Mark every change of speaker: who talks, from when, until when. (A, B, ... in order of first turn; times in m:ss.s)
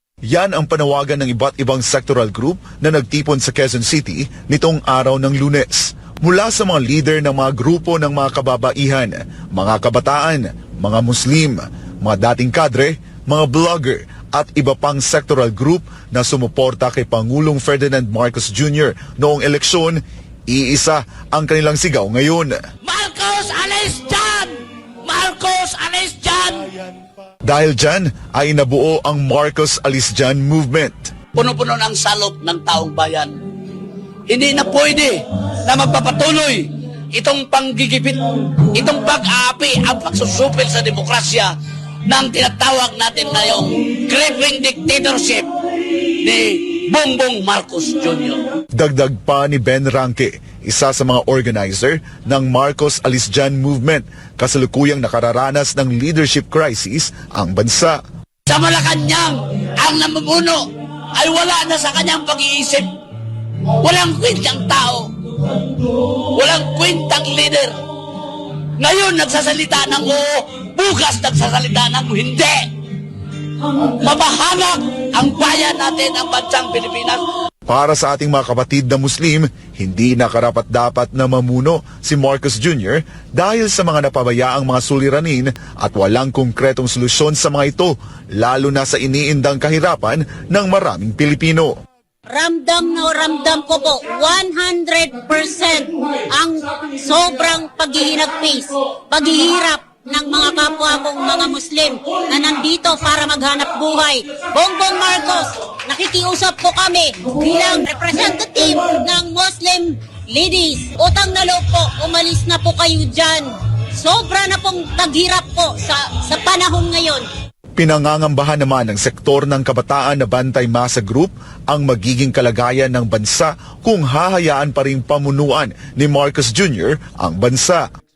0:00.3-0:22.5 A
0:22.8-0:26.8 B
0:27.4-0:31.1 A
0:31.4-0:33.3 B
0:34.3-0:38.2 B
0:38.7-0:41.5 B
0:42.1-0:45.5 B
0:46.2-0:48.4 B
0:48.8-0:58.0 A
0:58.5-1:00.6 B
1:01.2-1:02.9 B
1:03.8-1:05.1 B
1:06.3-1:07.8 B
1:08.8-1:12.7 B
1:14.0-1:17.2 B
1:17.7-1:31.7 A
1:32.3-1:57.3 C
1:57.8-2:07.8 A